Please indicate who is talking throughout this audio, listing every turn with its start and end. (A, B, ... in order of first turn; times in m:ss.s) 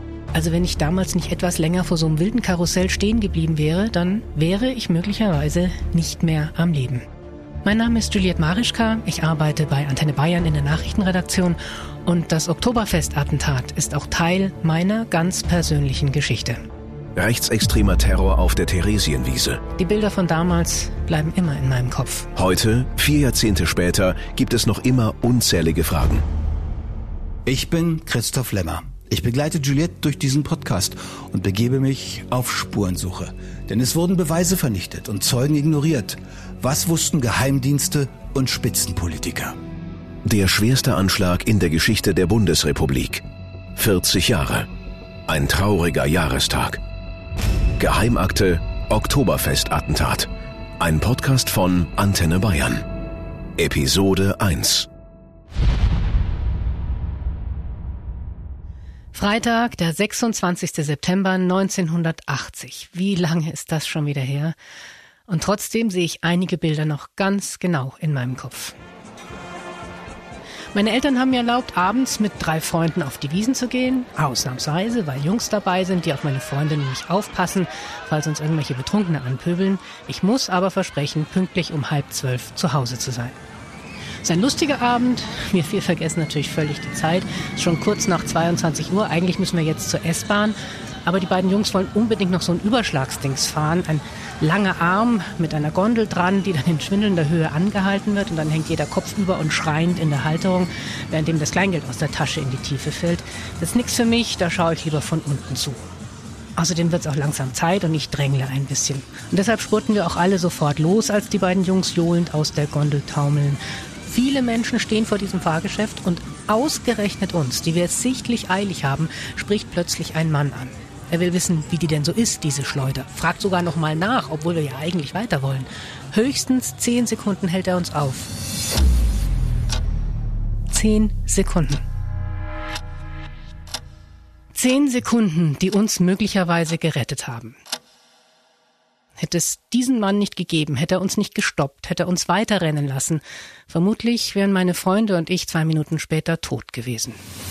0:00.3-0:07.0 A
0:07.6-0:16.6 A
0:17.2-0:19.6 B
0:19.8-0:22.3 A
0:22.4-0:26.2 B
0:27.4-0:39.6 C
0:40.2-0:43.2 B
0:43.8-0:44.7 B
0:45.3-0:46.8 B
0:47.8-0:50.3 B
0:50.8-0:52.9 B
0:53.6-0:54.9 B
0:59.1-1:04.6 A
1:05.3-1:08.7 A
1:10.7-1:23.4 A
1:24.2-1:45.8 A
1:46.6-2:08.3 A
2:10.7-2:11.8 A
2:14.5-2:17.6 A
2:19.2-2:27.2 A